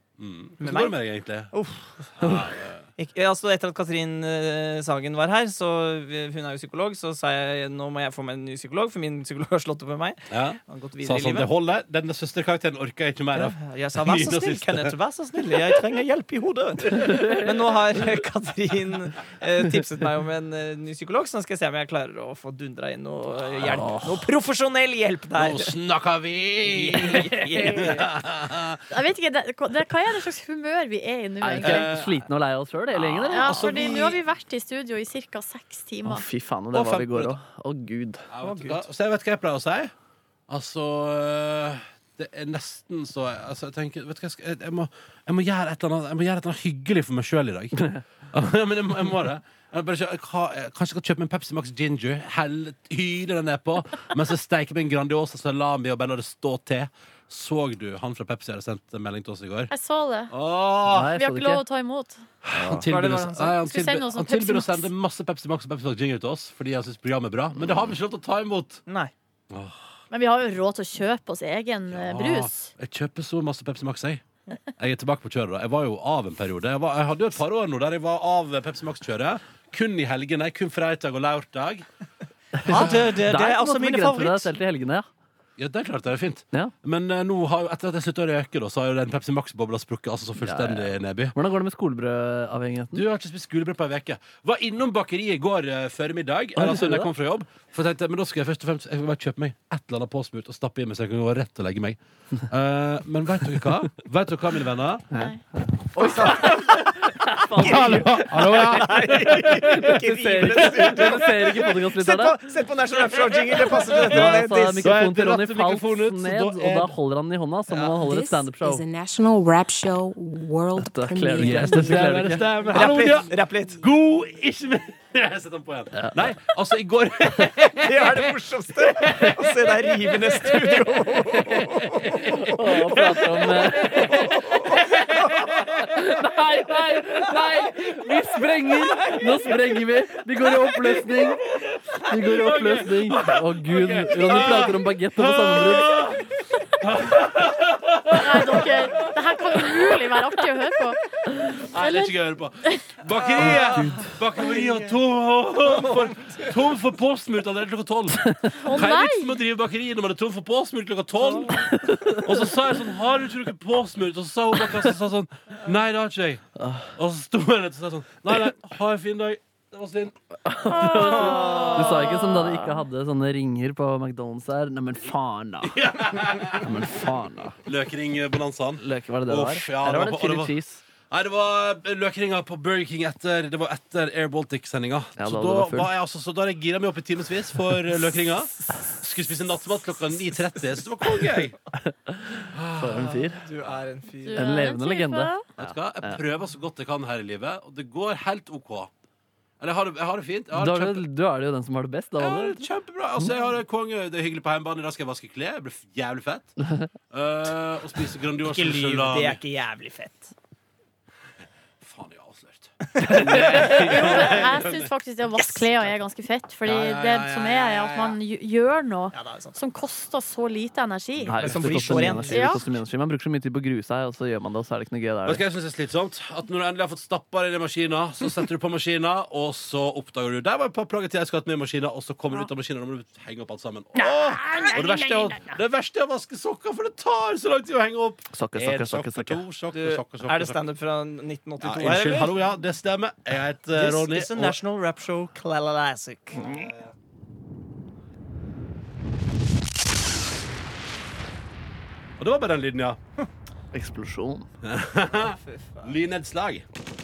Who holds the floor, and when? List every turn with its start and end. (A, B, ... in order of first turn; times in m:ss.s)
0:00.2-0:01.5 A
0:00.6-0:02.1 B
0:02.2-0:02.8 A
0:03.0-0:11.5 B
0:10.3-0:14.9 A
0:13.3-0:25.7 B
0:17.1-0:17.5 C
0:23.7-0:24.3 C
0:25.4-0:28.8 A
0:26.6-0:28.1 B
0:28.9-0:32.0 D
0:31.4-0:33.7 C
0:31.6-0:32.1 A
0:32.9-0:33.6 B
0:33.3-0:36.2 D
0:33.4-0:34.2 A
0:36.0-0:38.2 C
0:36.7-0:37.4 A
0:38.3-0:39.9 A
0:38.4-0:38.8 B
0:40.5-0:59.7 A
0:59.7-1:00.3 D
1:00.3-1:01.1 A
1:00.9-1:01.6 C
1:01.1-1:02.2 D
1:02.4-1:08.8 A
1:02.6-1:02.8 C
1:02.9-1:03.5 B
1:03.4-1:04.9 D
1:08.9-1:09.1 B
1:09.5-1:09.8 A
1:10.1-1:12.7 D
1:11.9-1:14.2 A
1:14.8-1:21.8 A
1:22.6-1:25.1 C
1:22.6-1:24.5 B
1:22.7-1:23.1 A
1:25.6-1:31.3 A
1:30.4-1:33.0 C
1:32.9-1:45.1 A
1:36.6-1:37.1 C
1:45.1-1:45.4 D
1:45.1-1:48.1 C
1:45.9-1:54.9 B
1:47.6-1:49.9 A
1:49.9-1:52.4 C
1:50.7-1:51.4 A
1:53.7-1:56.9 A
1:54.0-1:58.8 C
1:57.7-1:58.0 A
1:58.0-2:03.4 E
2:00.8-2:02.4 C
2:01.4-2:15.8 A
2:02.7-2:03.8 B
2:05.9-2:06.2 C
2:07.8-2:12.4 B
2:12.4-2:14.4 C
2:13.1-2:13.5 B
2:15.8-2:21.4 C
2:18.7-2:19.8 B
2:22.0-2:25.9 C
2:22.2-2:30.1 A
2:28.1-2:32.9 D
2:31.6-2:41.6 A
2:33.1-2:34.9 B
2:33.4-2:34.1 C
2:35.6-2:36.4 B
2:38.5-2:39.4 D
2:41.5-2:42.6 C
2:42.2-2:46.4 A
2:46.6-2:46.9 C
2:47.0-2:50.1 A
2:50.4-2:55.9 C
2:50.7-2:52.2 D
2:51.4-2:52.4 A
2:55.6-2:56.8 A
2:56.5-2:57.6 C
2:57.6-3:00.5 A
2:58.8-3:00.8 C
3:01.1-3:11.6 A
3:05.2-3:05.9 C
3:11.8-3:13.4 C
3:12.5-3:13.8 A
3:13.1-3:14.6 B
3:14.2-3:15.5 D
3:14.4-3:16.2 C
3:15.6-3:18.9 A
3:19.6-3:21.0 A
3:20.5-3:22.6 C
3:22.2-3:26.6 A
3:27.1-3:29.4 A
3:28.4-3:30.3 B
3:31.8-3:34.9 A
3:33.1-3:33.9 B
3:33.7-3:41.4 D
3:35.4-3:35.9 B
3:36.6-3:38.2 A
3:39.1-3:39.6 B
3:41.2-3:45.4 C
3:41.3-3:42.8 B
3:41.3-3:42.2 A
3:42.2-3:42.6 D
3:45.2-4:00.6 A
3:54.0-3:55.2 C
3:58.3-3:59.4 C
3:59.7-4:02.3 B
4:01.6-4:04.6 A
4:03.7-4:06.7 B
4:06.3-4:06.9 A
4:12.2-4:13.0 A
4:13.7-4:14.5 C
4:14.6-4:16.6 A
4:15.1-4:15.9 B